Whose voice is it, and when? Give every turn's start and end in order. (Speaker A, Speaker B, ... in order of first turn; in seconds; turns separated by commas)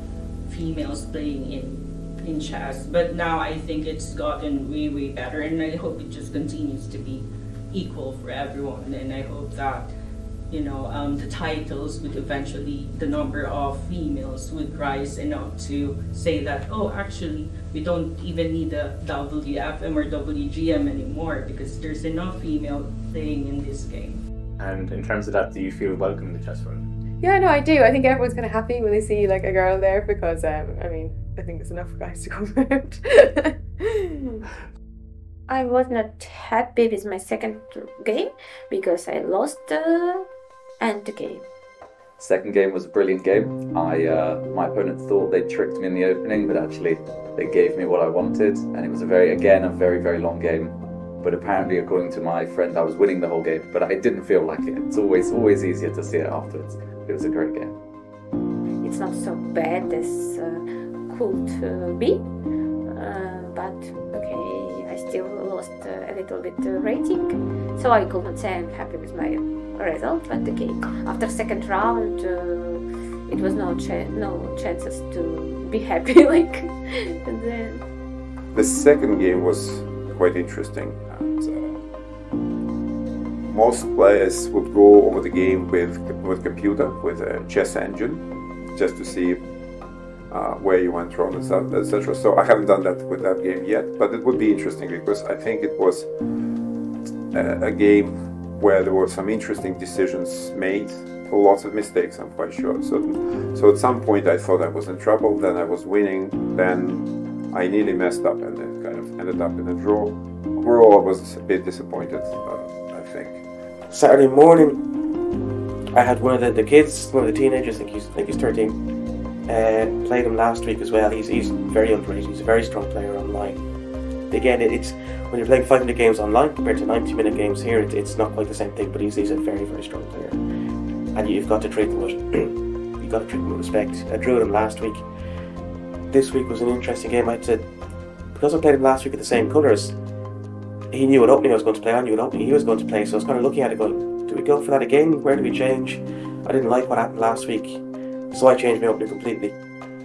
Speaker A: 0.5-9.9, Speaker A: 10.5-24.2, Speaker B: 24.6-26.9, Speaker C: 27.2-34.2, Speaker D: 35.5-40.3, Speaker D: 40.8-41.5, Speaker E: 42.2-57.8, Speaker D: 58.8-62.3, Speaker D: 62.9-77.8, Speaker F: 78.5-81.8, Speaker F: 83.5-89.4, Speaker F: 90.3-96.1, Speaker F: 97.3-113.4, Speaker G: 113.9-114.8, Speaker G: 115.9-118.8, Speaker G: 119.5-123.7, Speaker G: 124.3-130.4, Speaker G: 131.1-135.1, Speaker G: 136.1-137.8, Speaker G: 138.3-140.0, Speaker G: 140.9-149.6